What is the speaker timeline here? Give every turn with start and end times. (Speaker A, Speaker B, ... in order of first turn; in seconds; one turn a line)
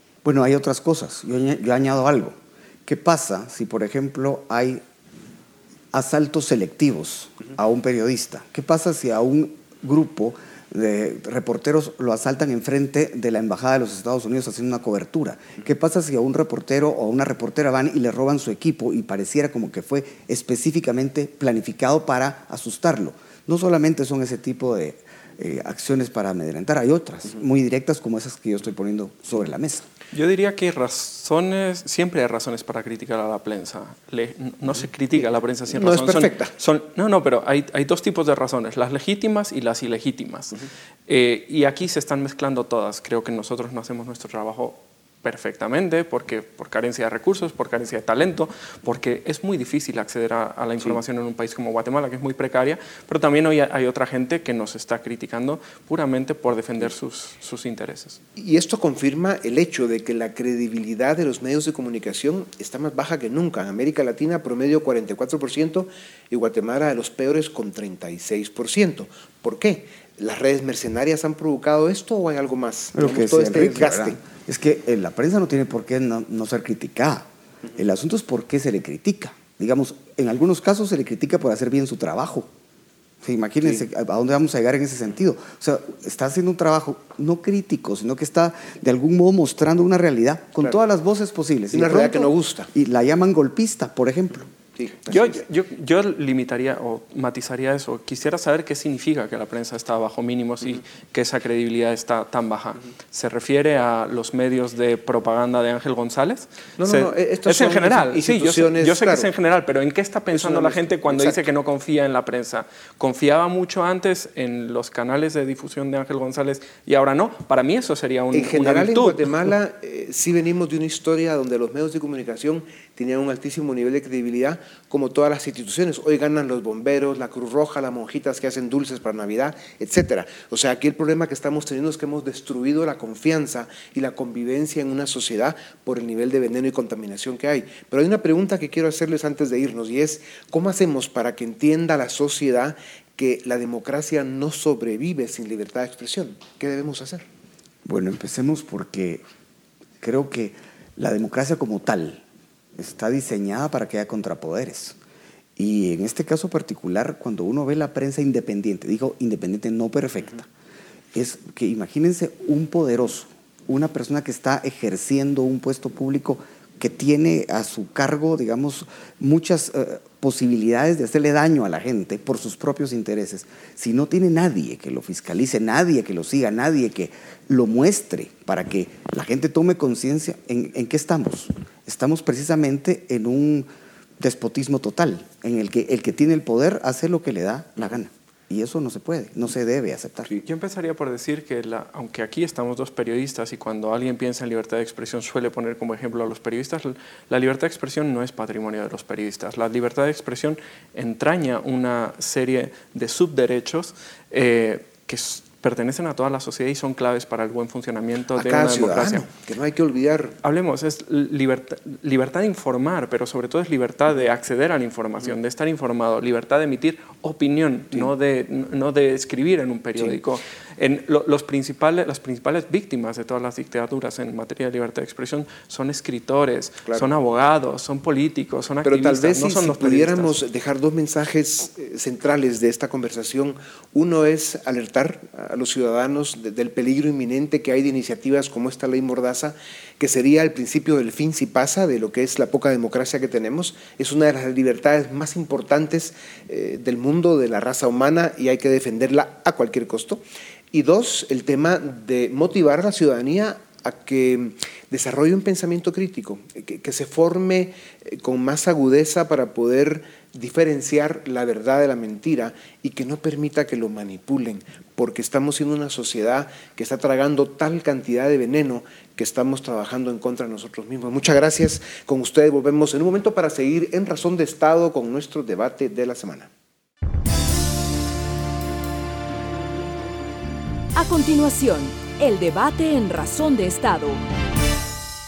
Speaker A: 0.2-4.8
Speaker A: 5.9-29.8
Speaker B: 30.1-58.2
Speaker C: 35.7-36.5
Speaker C: 58.4-74.2
Speaker A: 72.9-82.5
Speaker A: 83.2-94.5
Speaker C: 91.7-92.7
Speaker C: 94.8-95.4
Speaker B: 95.1-119.5
Speaker C: 106.8-109.3
Speaker C: 110.3-111.4
Speaker C: 118.3-147.2
Speaker A: 147.8-149.2
Speaker A: 150.0-152.2
Speaker A: 152.8-155.0
Speaker A: 155.6-160.5
Speaker A: 161.1-183.7
Speaker A: 184.2-190.3
Speaker B: 190.4-209.2
Speaker C: 208.3-210.3
Speaker B: 210.4-230.3
Speaker C: 228.8-276.5
Speaker D: 280.9-284.2